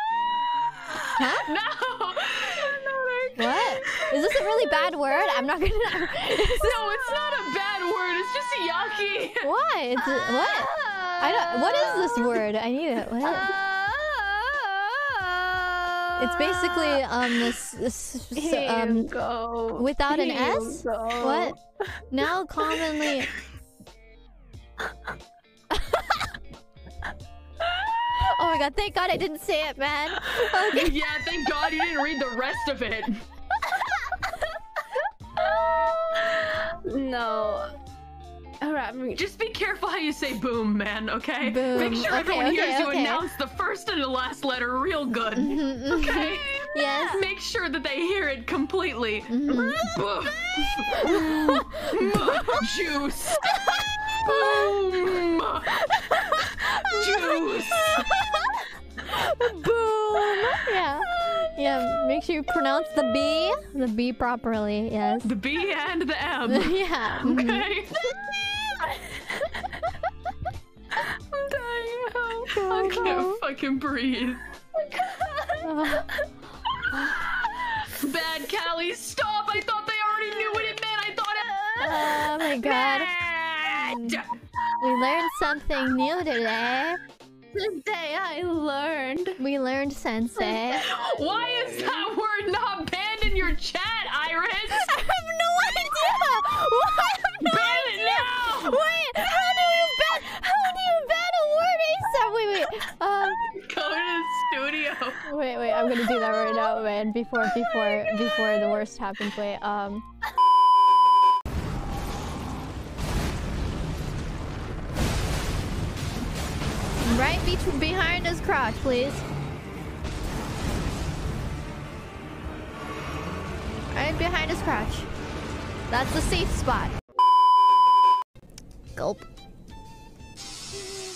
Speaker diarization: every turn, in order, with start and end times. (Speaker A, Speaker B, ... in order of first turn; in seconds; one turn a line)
Speaker A: 0.8-5.2
Speaker B: 1.2-1.5
Speaker B: 3.4-7.2
Speaker A: 6.1-9.5
Speaker B: 9.4-10.7
Speaker C: 10.2-12.4
Speaker B: 11.2-13.5
Speaker C: 13.2-17.0
Speaker B: 16.2-19.1
Speaker C: 18.3-22.0
Speaker B: 19.8-21.6
Speaker B: 22.1-23.3
Speaker B: 28.2-30.9
Speaker A: 30.2-33.2
Speaker C: 35.4-37.7
Speaker C: 38.6-39.2
Speaker A: 39.1-58.1
Speaker B: 41.4-43.2
Speaker B: 45.3-47.2
Speaker C: 46.8-47.1
Speaker B: 49.3-49.9
Speaker C: 49.5-49.9
Speaker B: 50.9-52.6
Speaker B: 54.2-54.8
Speaker B: 55.9-58.6
Speaker B: 59.1-65.3
Speaker A: 65.2-68.0
Speaker B: 66.5-67.7
Speaker A: 71.0-74.5
Speaker B: 72.5-73.2
Speaker B: 75.6-76.1
Speaker A: 76.9-84.3
Speaker C: 81.4-82.0
Speaker B: 81.8-83.1
Speaker B: 83.7-84.2
Speaker B: 84.8-87.0
Speaker C: 87.5-89.4
Speaker B: 89.4-90.9
Speaker A: 90.4-94.9
Speaker C: 91.1-91.9
Speaker B: 94.8-103.4
Speaker A: 97.4-98.8
Speaker A: 103.5-105.3
Speaker B: 105.2-110.0
Speaker A: 106.0-106.4
Speaker A: 107.4-108.4
Speaker B: 117.0-119.2
Speaker B: 123.9-125.1
Speaker B: 125.9-126.9
Speaker B: 128.9-129.2